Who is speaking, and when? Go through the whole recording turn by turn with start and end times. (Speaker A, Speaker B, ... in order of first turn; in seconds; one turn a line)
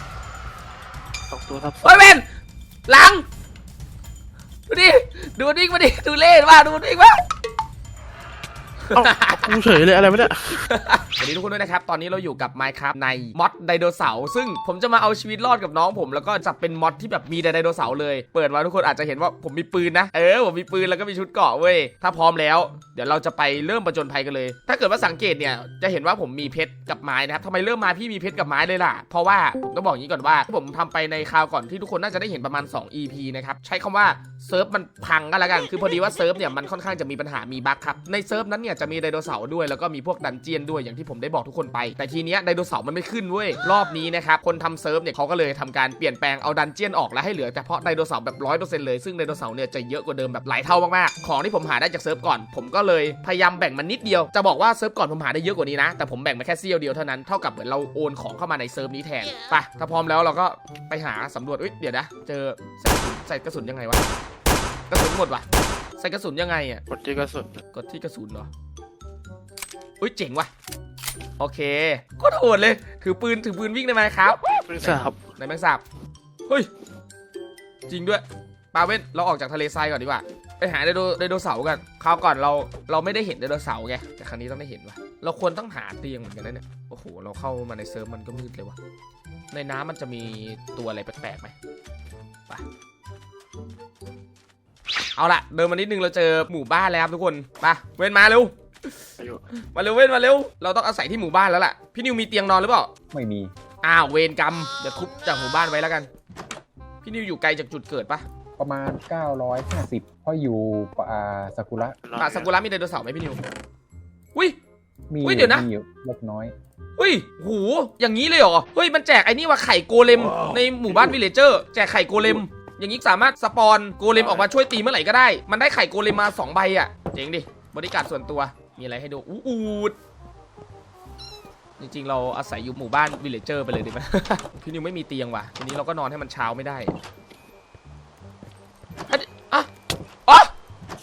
Speaker A: 1.3-2.0
Speaker B: 1.8-2.3
Speaker B: 2.9-3.2
Speaker B: 4.7-7.2
Speaker B: 8.8-9.6
Speaker A: 8.9-10.6
Speaker B: 10.5-64.0
Speaker B: 64.9-65.5
Speaker B: 66.0-66.8
Speaker A: 66.9-67.6
Speaker B: 67.7-68.5
Speaker B: 70.0-70.5
Speaker B: 71.4-75.8
Speaker A: 74.7-75.2
Speaker B: 77.9-88.8
Speaker B: 89.5-91.5
Speaker B: 95.2-99.0
Speaker A: 99.2-99.4
Speaker B: 99.7-102.9
Speaker C: 103.1-103.5
Speaker B: 103.8-106.1
Speaker B: 107.0-108.2
Speaker C: 108.6-112.0
Speaker A: 112.0-112.5
Speaker B: 112.2-113.4
Speaker C: 115.1-116.5
Speaker B: 115.2-115.7
Speaker B: 117.0-129.9
Speaker A: 124.1-124.5
Speaker B: 131.8-136.9
Speaker B: 139.1-139.7
Speaker B: 140.3-140.5